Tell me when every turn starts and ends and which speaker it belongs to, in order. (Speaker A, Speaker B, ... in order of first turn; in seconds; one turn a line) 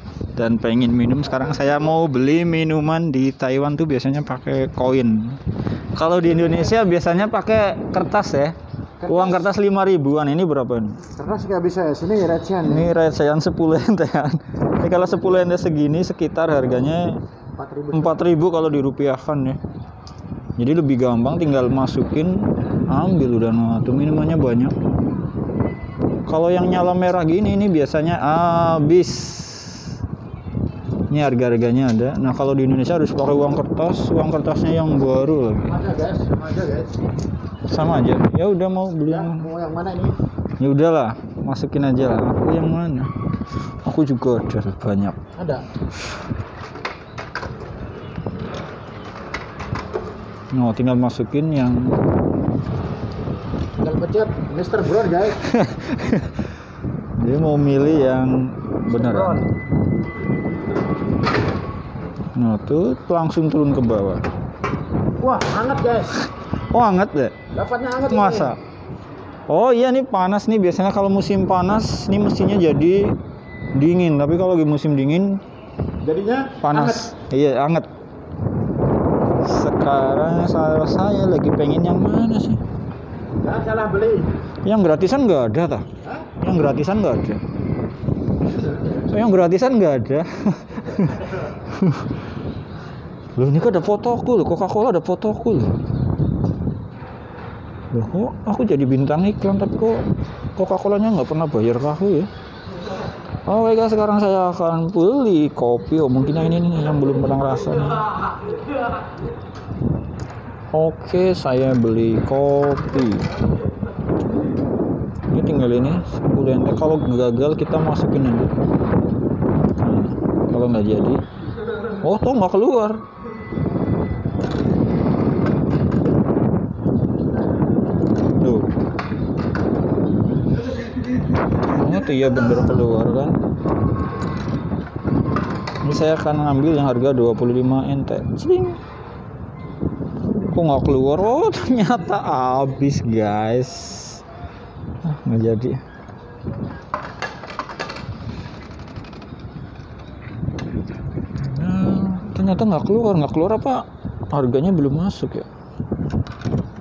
Speaker A: 0.3-11.1
Speaker B: 9.1-9.4
Speaker B: 11.1-12.9
Speaker A: 12.6-17.2
Speaker B: 17.6-18.2
Speaker A: 17.9-19.6
Speaker A: 20.6-24.7
Speaker A: 26.2-30.0
Speaker A: 31.1-35.8
Speaker B: 35.7-36.9
Speaker A: 37.7-39.5
Speaker B: 39.1-40.2
Speaker A: 40.6-43.1
Speaker A: 43.8-45.2
Speaker B: 45.4-45.6
Speaker A: 50.5-52.0
Speaker B: 53.8-55.5
Speaker A: 55.4-56.3
Speaker A: 57.1-59.4
Speaker B: 58.9-59.5
Speaker A: 62.3-64.2
Speaker B: 65.2-66.2
Speaker A: 66.7-67.4
Speaker B: 67.5-68.5
Speaker A: 68.1-68.6
Speaker A: 69.5-73.2
Speaker A: 73.8-75.4
Speaker B: 76.0-77.1
Speaker A: 76.6-77.9
Speaker A: 79.3-82.6
Speaker B: 83.4-84.3
Speaker A: 84.6-87.4
Speaker A: 88.9-92.1
Speaker A: 93.4-95.7
Speaker A: 97.9-100.0
Speaker A: 100.5-102.3
Speaker A: 103.5-108.1
Speaker A: 110.7-113.3
Speaker A: 115.3-118.6
Speaker A: 119.8-121.2
Speaker A: 122.0-123.0
Speaker A: 128.4-128.7
Speaker A: 131.6-133.4
Speaker A: 135.8-138.8
Speaker A: 140.4-144.2
Speaker A: 145.0-145.8
Speaker A: 151.4-155.5